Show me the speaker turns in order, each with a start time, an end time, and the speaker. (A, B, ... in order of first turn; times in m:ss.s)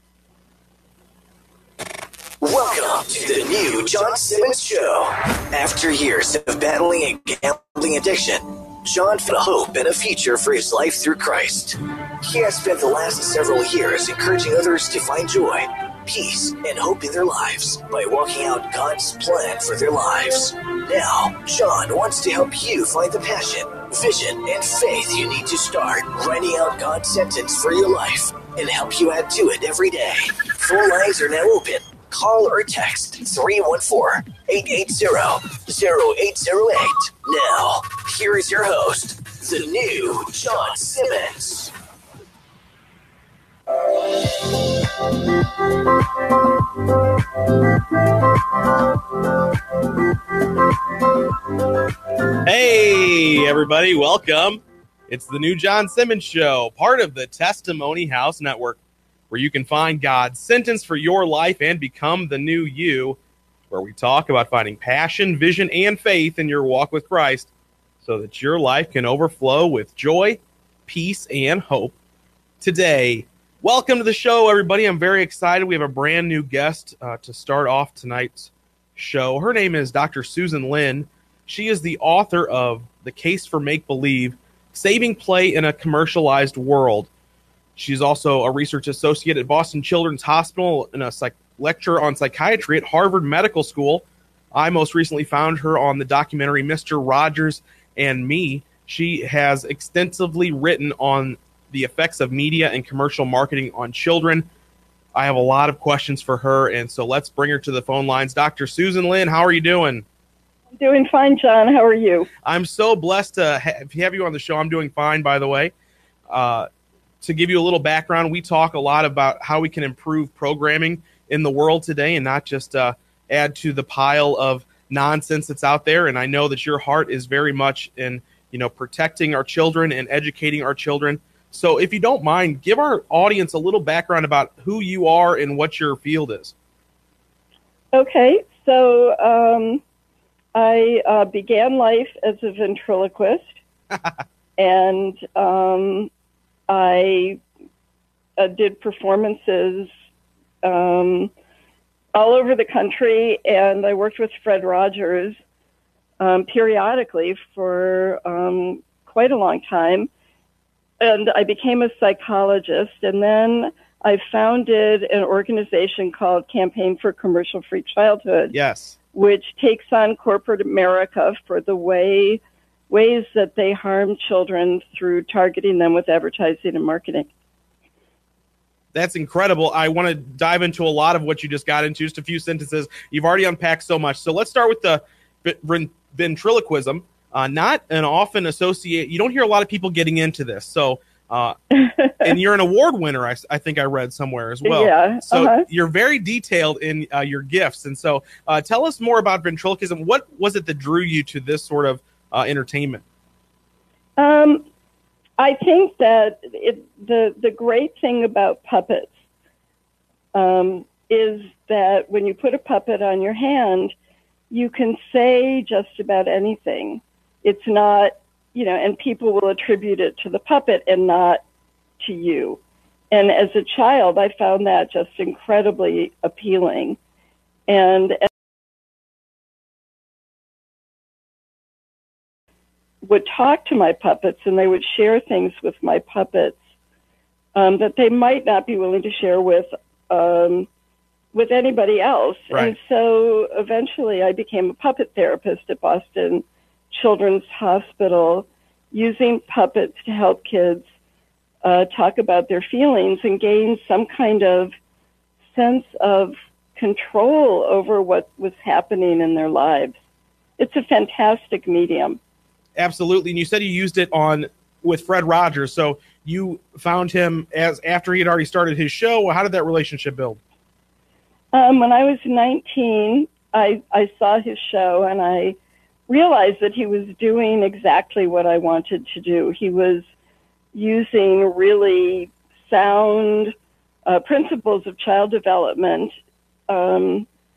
0:02.4-0:41.7 A
0:52.4-0:58.8 B
0:59.3-1:03.2 B
1:03.7-1:07.5 B
1:08.0-1:12.0 B
1:12.6-1:27.1 B
1:27.8-1:44.5 B
1:45.2-1:50.0 B
1:50.8-1:52.3 C
1:52.4-1:55.7 B
1:56.3-1:56.7 B
1:57.2-2:16.5 B
2:17.9-2:19.8 C
2:20.6-2:23.6 C
2:24.6-2:26.1 C
2:26.7-2:27.4 C
2:28.4-2:29.9 C
2:30.6-2:31.3 C
2:32.1-2:35.4 C
2:36.2-2:40.1 C
2:41.0-2:48.6 C
2:48.5-2:49.0 B
2:49.1-2:57.3 C
2:58.9-3:11.6 B
3:11.7-3:12.3 C
3:12.1-3:23.0 B
3:14.6-3:15.7 C
3:24.2-3:24.6 C
3:25.4-3:29.1 C
3:30.3-3:34.0 C
3:34.5-3:41.4 C
3:42.0-3:42.6 C
3:43.1-3:47.0 C
3:47.7-3:48.3 C
3:53.0-3:56.6 C
3:57.6-4:00.7 C
4:01.3-4:10.8 C
4:11.6-4:14.7 C
4:15.5-4:20.0 C
4:20.6-4:22.2 C
4:22.8-4:30.4 B
4:31.5-4:35.6 C
4:36.1-4:40.0 C
4:40.7-4:43.5 C
4:44.1-4:46.1 C
4:46.7-4:47.3 C